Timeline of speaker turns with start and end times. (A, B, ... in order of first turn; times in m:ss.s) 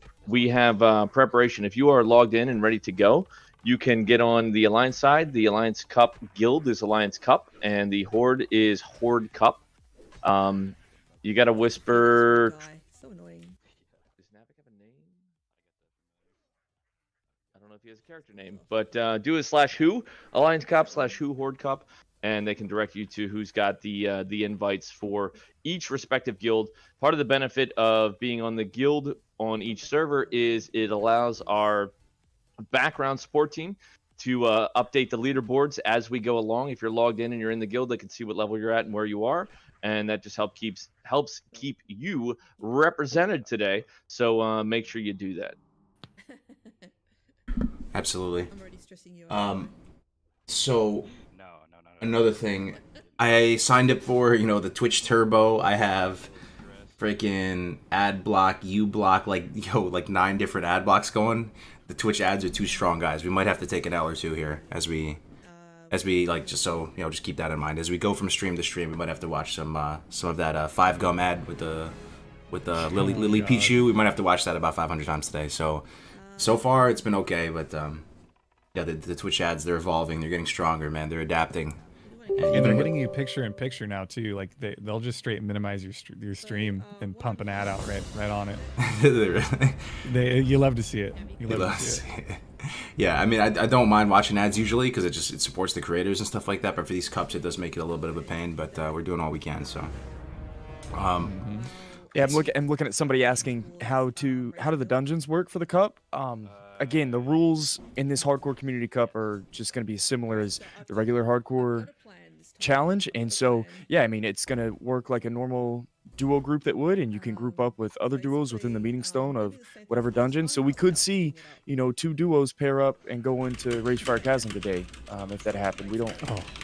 0:00.2-0:01.1 A
0:00.2-0:09.6 B
0:10.2-0:12.6 B
0:10.2-0:12.0 A
0:11.9-0:13.6 C
0:13.6-0:14.1 A
0:14.2-0:15.2 B
0:15.5-0:16.5 A
0:17.3-0:19.2 A
0:17.5-0:31.9 B
0:29.8-0:31.6 C
0:32.6-0:45.6 B
0:43.1-0:44.0 A
0:47.9-0:48.5 D
0:48.5-0:49.7 C
0:49.3-0:49.7 D
0:50.5-0:51.1 D
0:51.0-0:57.5 A
0:52.0-0:56.3 D
0:52.7-0:53.0 C
0:57.0-1:05.2 D
1:01.6-1:01.9 A
1:02.2-1:07.2 C
1:05.9-1:12.0 D
1:12.5-1:18.0 D
1:12.8-1:13.8 E
1:12.8-1:13.5 C
1:16.1-1:17.2 C
1:18.7-1:21.8 D
1:22.0-1:23.0 C
1:22.3-1:22.9 D
1:22.5-1:28.6 E
1:26.4-1:30.6 C
1:28.8-1:30.0 D
1:30.0-1:32.0 E
1:31.1-1:34.9 C
1:31.5-1:39.9 D
1:36.6-1:40.2 C
1:39.7-1:40.7 A
1:40.9-1:41.4 D
1:41.2-1:45.3 C
1:41.2-1:41.7 E
1:42.1-1:51.9 F
1:46.4-1:50.5 A
1:50.2-1:53.9 C
1:52.6-2:06.2 F
1:57.0-2:01.7 C
2:03.0-2:03.2 C
2:04.0-2:04.5 C
2:05.4-2:06.2 A
2:05.6-2:06.4 C
2:06.2-2:06.5 E